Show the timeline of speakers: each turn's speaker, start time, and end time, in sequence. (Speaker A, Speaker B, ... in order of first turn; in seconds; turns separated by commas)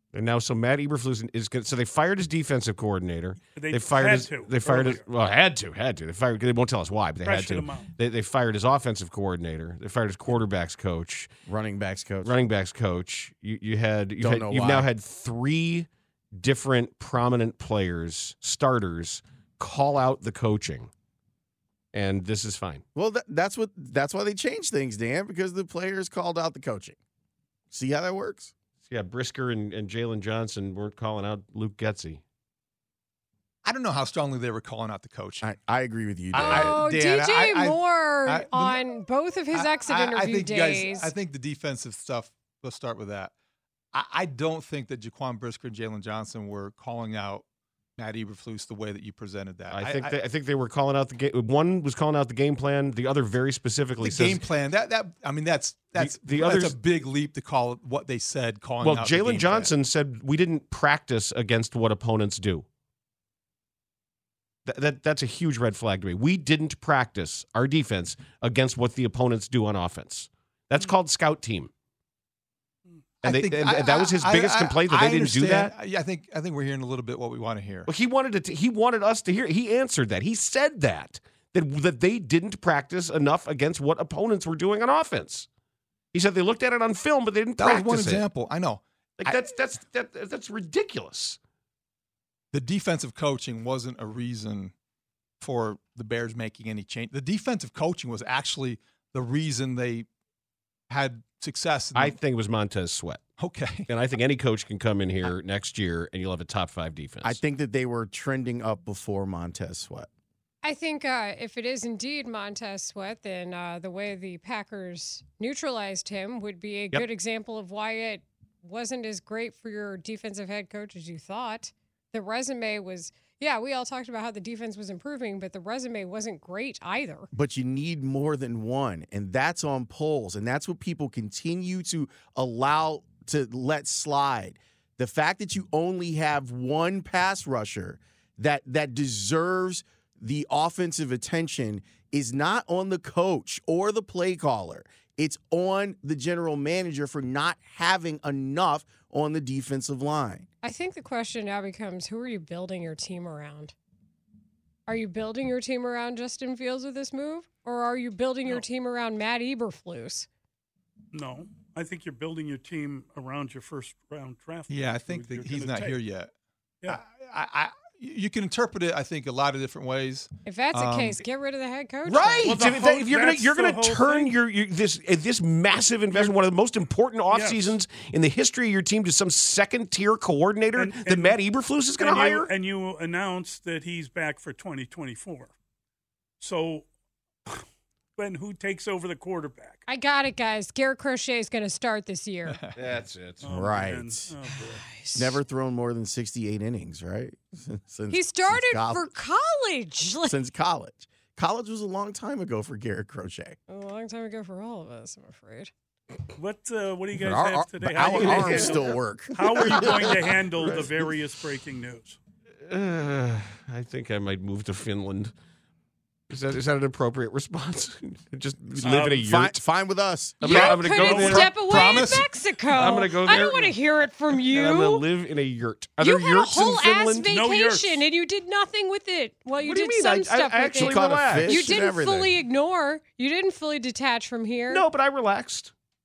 Speaker A: 0.1-11.3, Speaker B: 3.5-5.0, Speaker B: 7.2-7.9, Speaker C: 11.5-12.4, Speaker A: 12.2-20.9, Speaker C: 14.2-14.9, Speaker A: 21.9-22.8, Speaker C: 22.9-26.9, Speaker C: 27.7-28.5, Speaker A: 28.9-32.2, Speaker D: 33.6-35.5, Speaker C: 35.4-36.8, Speaker D: 36.3-38.8, Speaker E: 36.4-41.1, Speaker D: 39.5-43.3, Speaker D: 43.9-47.4, Speaker D: 48.0-50.1, Speaker A: 49.7-54.4, Speaker D: 54.0-59.7, Speaker A: 56.0-56.8, Speaker A: 58.8-62.6, Speaker A: 64.7-71.7, Speaker A: 73.2-75.7, Speaker D: 73.2-77.9, Speaker A: 77.8-85.5, Speaker A: 86.1-88.2, Speaker D: 87.6-89.3, Speaker A: 89.2-91.4, Speaker D: 92.5-94.7, Speaker D: 95.4-100.1, Speaker D: 100.9-102.2, Speaker A: 101.9-103.2, Speaker D: 103.4-103.9, Speaker A: 103.9-107.4, Speaker C: 107.2-110.1, Speaker E: 110.6-127.3, Speaker C: 127.3-150.5, Speaker E: 150.6-153.7, Speaker E: 154.9-160.3, Speaker B: 161.1-166.0, Speaker D: 164.7-166.3, Speaker D: 166.9-171.2, Speaker E: 170.4-172.6, Speaker A: 172.0-182.5, Speaker B: 172.4-174.3, Speaker B: 177.3-177.8, Speaker B: 180.8-181.4, Speaker B: 182.0-185.5, Speaker B: 186.4-186.9, Speaker B: 188.2-189.8, Speaker E: 189.9-192.6, Speaker A: 192.7-193.5, Speaker B: 193.4-194.8, Speaker C: 193.5-194.3, Speaker E: 194.5-195.4, Speaker C: 195.1-199.1, Speaker E: 198.1-200.4, Speaker C: 200.2-203.6, Speaker E: 203.7-205.7, Speaker B: 206.3-212.2, Speaker C: 207.1-210.3, Speaker A: 208.1-208.5, Speaker A: 212.7-215.3, Speaker A: 216.3-219.6, Speaker C: 218.8-220.6, Speaker B: 218.8-219.3, Speaker A: 220.4-222.1, Speaker E: 220.4-225.0, Speaker D: 220.5-220.9, Speaker B: 221.0-222.0, Speaker D: 221.5-222.2, Speaker A: 222.7-223.8, Speaker A: 224.3-227.3, Speaker E: 226.0-234.8, Speaker B: 227.3-228.1, Speaker A: 229.6-231.7, Speaker C: 230.8-232.4, Speaker A: 234.7-235.7